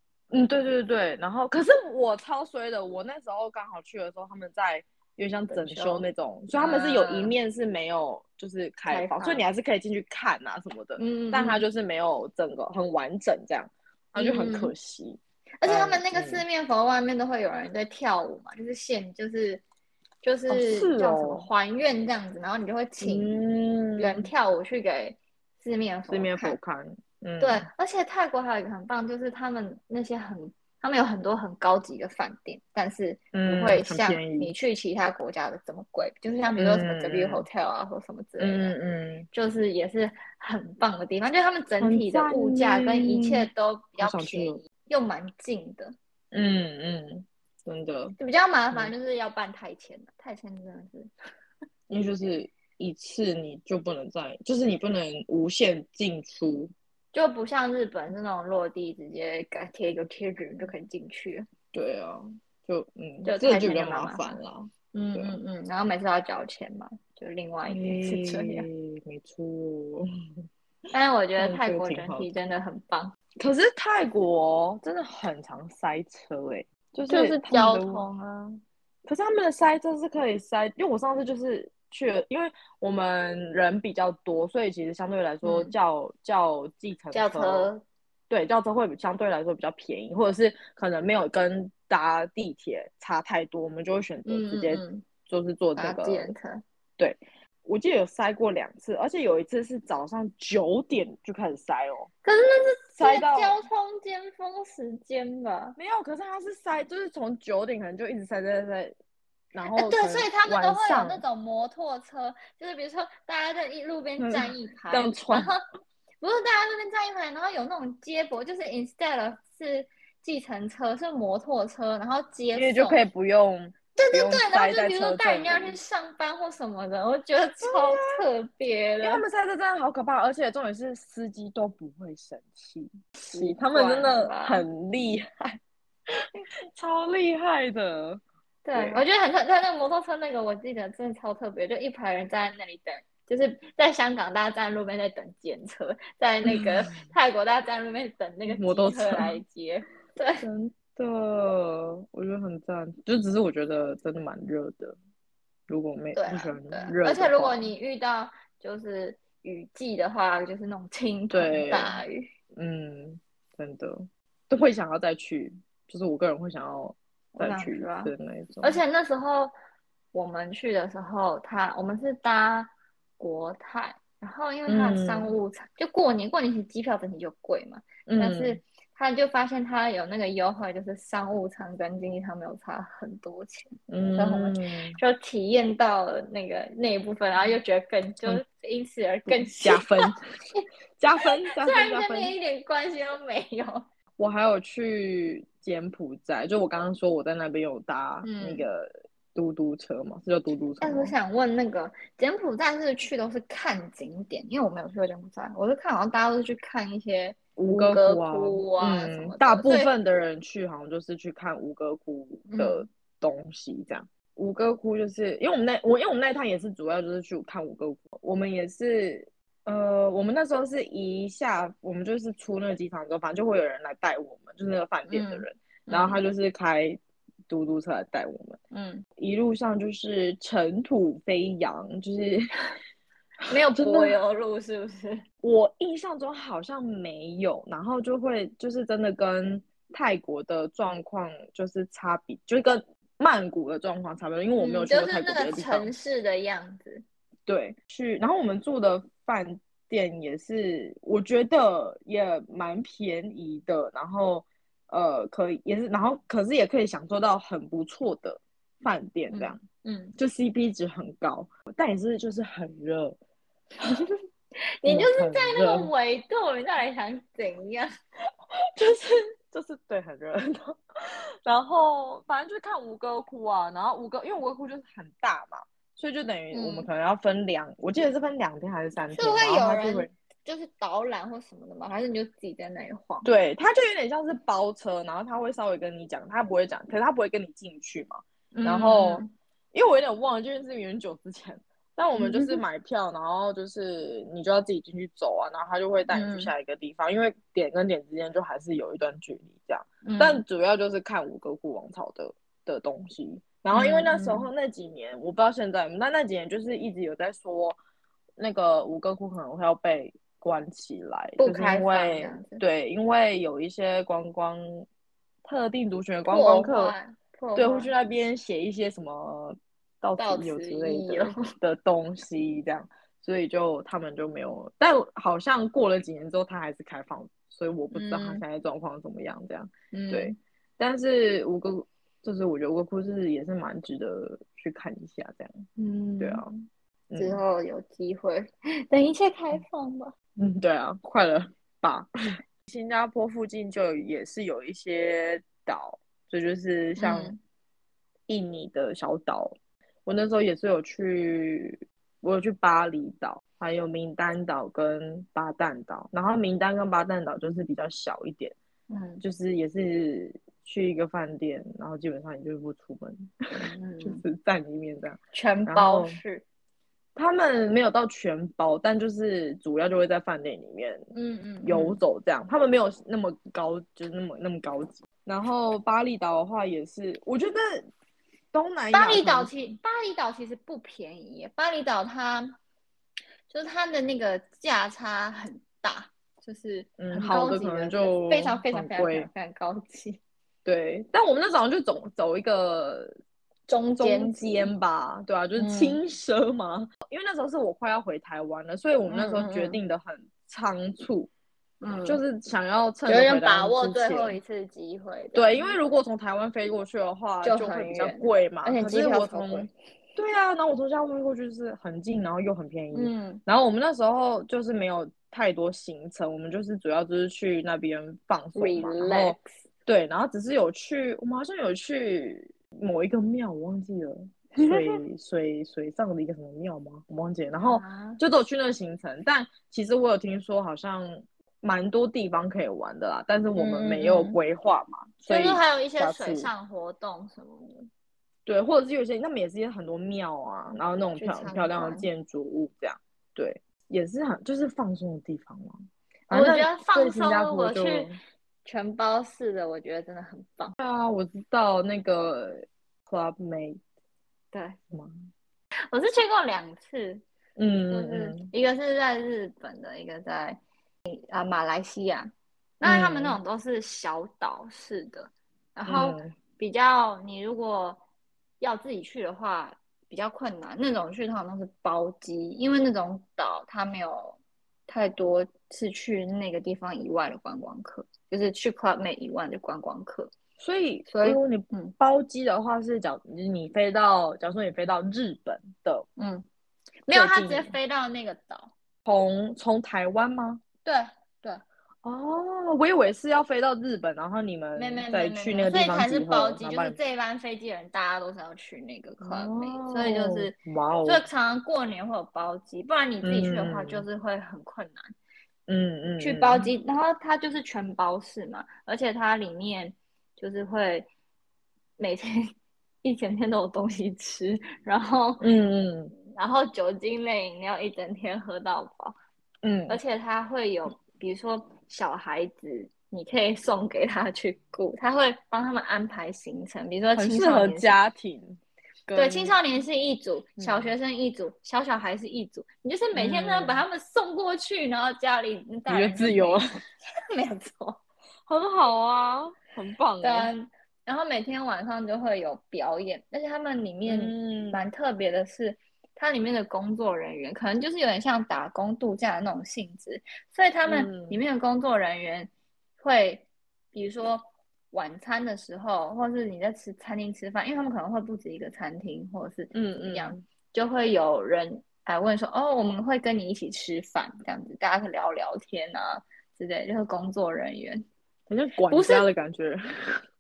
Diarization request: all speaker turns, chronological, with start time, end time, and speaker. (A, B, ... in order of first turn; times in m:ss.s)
0:00.3-0:16.4 A
0:05.5-0:07.3 B
0:08.9-0:09.4 B
0:11.0-0:11.6 B
0:14.2-0:14.7 B
0:15.6-0:19.6 B
0:20.2-0:23.3 B
0:20.5-0:21.5 A
0:23.0-0:24.3 A
0:24.0-0:26.6 B
0:26.1-0:27.7 A
0:27.4-0:38.7 B
0:33.3-0:34.5 A
0:36.6-0:37.5 A
0:38.4-0:39.3 A
0:39.3-0:46.0 B
0:41.8-0:44.6 A
0:46.3-0:48.2 A
0:48.2-0:51.1 B
0:51.9-0:56.7 A
0:57.1-1:01.5 B
1:01.7-1:05.4 A
1:03.2-1:04.4 B
1:04.9-1:08.7 B
1:07.7-1:10.1 A
1:10.9-1:13.1 B
1:11.4-1:12.3 A
1:13.4-1:18.0 A
1:17.1-1:18.6 B
1:19.0-1:27.7 A
1:25.4-1:25.7 B
1:27.1-1:27.8 B
1:28.3-1:36.3 A
1:34.2-1:35.0 B
1:35.8-1:36.6 B
1:37.0-1:42.1 A
1:42.2-1:45.8 B
1:43.0-1:43.6 A
1:45.8-1:49.0 A
1:49.5-1:51.2 A
1:49.7-1:55.6 B
1:54.2-1:55.5 A
1:56.2-2:03.0 B
2:02.5-2:05.8 A
2:04.0-2:09.2 B
2:07.6-2:08.2 A
2:09.0-2:15.6 A
2:13.2-2:14.6 B
2:16.7-2:18.2 A
2:18.6-2:30.5 B
2:18.7-2:19.0 A
2:26.5-2:26.9 A
2:28.5-2:29.4 A
2:30.4-2:35.0 A
2:35.7-2:37.7 A
2:36.2-2:42.3 B
2:41.3-2:42.0 A
2:42.5-2:48.8 A
2:47.4-2:49.5 B
2:50.1-3:10.6 B
2:54.7-2:55.3 A
2:58.1-2:58.6 A
3:03.9-3:05.0 A
3:09.3-3:10.2 A
3:11.0-3:12.3 A
3:11.6-3:13.9 B
3:14.2-3:21.1 A
3:18.2-3:18.7 B
3:20.8-3:29.9 B
3:27.6-3:48.6 A
3:32.5-3:32.9 B
3:45.1-3:46.2 B
3:48.7-3:49.0 B
3:49.2-3:52.5 A
3:53.4-3:54.2 A
3:53.5-3:55.2 B
3:55.4-4:05.9 A
4:04.6-4:07.0 B
4:07.5-4:19.6 A
4:19.3-4:20.2 B
4:20.2-4:23.2 A
4:24.8-4:27.9 B
4:24.8-4:25.9 A
4:28.8-4:40.1 A
4:36.5-4:36.9 B
4:39.1-4:43.3 B
4:43.2-5:07.8 A
4:48.5-4:49.3 B
4:52.2-4:52.6 B
4:56.1-4:56.5 B
5:00.0-5:00.4 B
5:03.7-5:04.5 B
5:08.4-5:14.8 A
5:11.4-5:12.6 B
5:15.4-5:17.0 A
5:16.3-5:17.9 B
5:17.6-5:35.6 A
5:20.2-5:21.4 B
5:27.9-5:28.4 B
5:29.9-5:30.4 B
5:35.8-5:36.4 B
5:36.2-5:36.5 A
5:37.1-5:37.4 A
5:37.2-5:40.1 B
5:40.4-5:42.1 A
5:42.6-5:47.3 A
5:47.0-5:47.4 B
5:48.3-5:49.6 A
5:50.1-5:58.6 A
5:58.9-5:59.2 B
5:59.2-6:06.2 A
6:03.6-6:04.2 B
6:05.3-6:06.4 B
6:07.2-6:11.1 A
6:11.1-6:12.0 B
6:11.6-6:17.9 A
6:18.5-6:19.6 A
6:18.9-6:22.6 B
6:23.5-6:30.2 B
6:27.0-6:29.3 A
6:30.6-6:33.1 A
6:33.7-6:34.7 B
6:34.0-6:41.3 A
6:35.6-6:36.0 B
6:39.1-6:39.8 B
6:41.8-6:42.2 B
6:42.1-6:44.4 A
6:43.1-6:45.8 B
6:45.4-7:16.5 A
6:47.4-6:49.7 B
6:52.9-6:53.4 B
6:58.6-6:59.5 B
7:04.6-7:05.0 B
7:07.6-7:08.2 B
7:13.6-7:14.4 B
7:15.3-7:17.9 B
7:18.5-7:28.2 A
7:21.2-7:22.1 B
7:26.3-7:28.1 B
7:28.6-7:30.8 B
7:30.8-7:33.8 A
7:34.5-7:34.8 B
7:34.9-7:35.3 A
7:35.9-7:37.2 B
7:37.6-7:38.5 A
7:37.9-7:40.6 B
7:41.1-7:48.0 B
7:42.8-7:43.4 A
7:45.9-7:46.3 A
7:48.6-8:00.3 B
8:00.6-8:06.1 A
8:01.1-8:01.9 B
8:06.2-8:06.5 B
8:07.1-8:08.7 B
8:07.1-8:07.8 A
8:09.0-8:10.6 A
8:10.8-8:11.6 B
8:12.0-8:17.0 A
8:14.8-8:25.1 B
8:19.2-8:21.2 A
8:23.2-8:24.1 A
8:25.7-8:26.7 A
8:26.2-8:31.1 B
8:32.0-8:32.5 B
8:33.0-8:35.5 B
8:35.4-8:36.1 A
8:36.3-8:39.2 B
8:39.6-8:40.0 A
8:39.9-8:48.0 B
8:47.2-8:49.6 A
8:49.2-8:56.6 B
8:50.6-8:50.9 A
8:53.2-8:53.8 A
8:55.9-8:56.7 A
8:57.3-8:58.0 B
8:58.5-9:00.5 A
9:00.2-9:28.0 B
9:04.1-9:04.8 A
9:10.8-9:11.4 A
9:19.7-9:20.4 A
9:28.5-9:30.2 A
9:28.9-9:29.3 B